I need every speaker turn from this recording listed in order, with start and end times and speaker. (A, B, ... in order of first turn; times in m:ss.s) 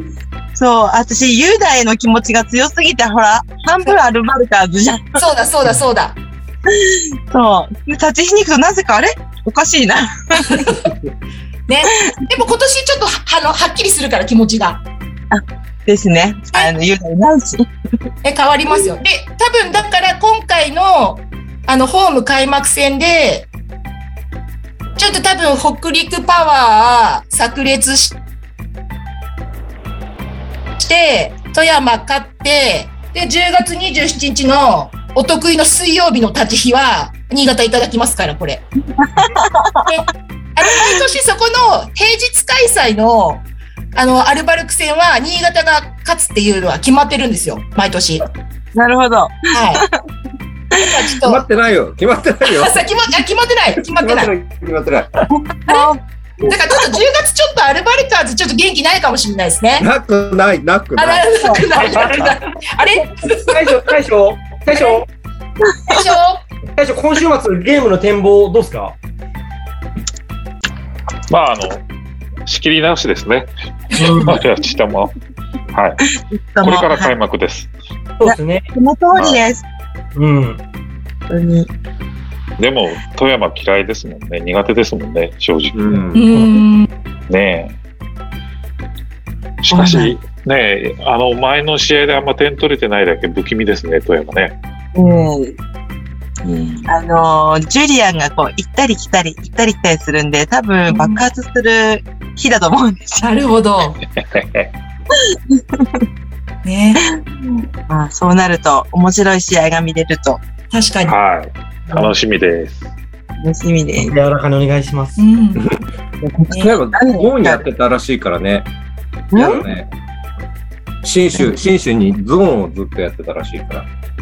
0:00.6-0:05.2 A
0:05.2-0:06.2 B
0:06.7-0:10.6 A
0:10.4-0:10.9 B
0:11.7-0:14.8 B
0:15.3-0:17.7 A
0:18.2-0:23.5 B
0:25.0-0:28.2 B
0:30.8-0:38.6 B
0:39.0-0:40.0 A
0:39.9-0:48.3 B
0:40.7-0:41.0 A
0:48.8-0:49.9 A
0:49.5-0:49.8 B
0:50.7-0:51.4 B
0:51.2-0:52.8 C
0:52.4-0:54.3 B
0:53.8-0:55.1 C
0:55.4-0:56.8 A
0:55.7-0:55.9 B
0:56.4-0:59.9 B
0:59.8-1:01.6 C
1:01.0-1:03.6 B
1:01.8-1:02.4 D
1:03.4-1:05.1 D
1:05.9-1:06.4 B
1:06.8-1:09.0 D
1:11.3-1:11.8 E
1:12.5-1:13.5 E
1:14.0-1:14.2 B
1:14.0-1:14.4 D
1:14.2-1:15.1 E
1:15.7-1:16.0 E
1:16.4-1:17.1 A
1:16.6-1:17.7 E
1:18.2-1:18.7 D
1:18.2-1:19.6 A
1:19.2-1:19.4 E
1:20.2-1:20.6 D
1:21.3-1:21.7 A
1:22.6-1:26.0 E
1:25.8-1:26.5 C
1:26.1-1:26.9 B
1:27.3-1:27.7 E
1:29.6-1:34.6 E
1:29.7-1:30.2 A
1:35.0-1:35.6 A
1:35.0-1:35.3 D
1:36.4-1:43.3 A
1:40.9-1:41.2 B
1:43.2-1:44.0 B
1:44.0-1:44.7 E
1:46.6-1:47.0 B
1:47.9-1:50.4 A
1:50.7-1:51.2 B
1:51.0-1:52.8 E
1:53.4-1:54.1 A
1:54.0-1:55.2 D
1:55.2-1:55.6 B
1:55.6-1:58.7 C
1:56.5-1:57.6 A
1:59.3-1:59.6 A
1:59.4-1:59.9 C
1:59.4-1:59.7 D
2:01.0-2:03.9 C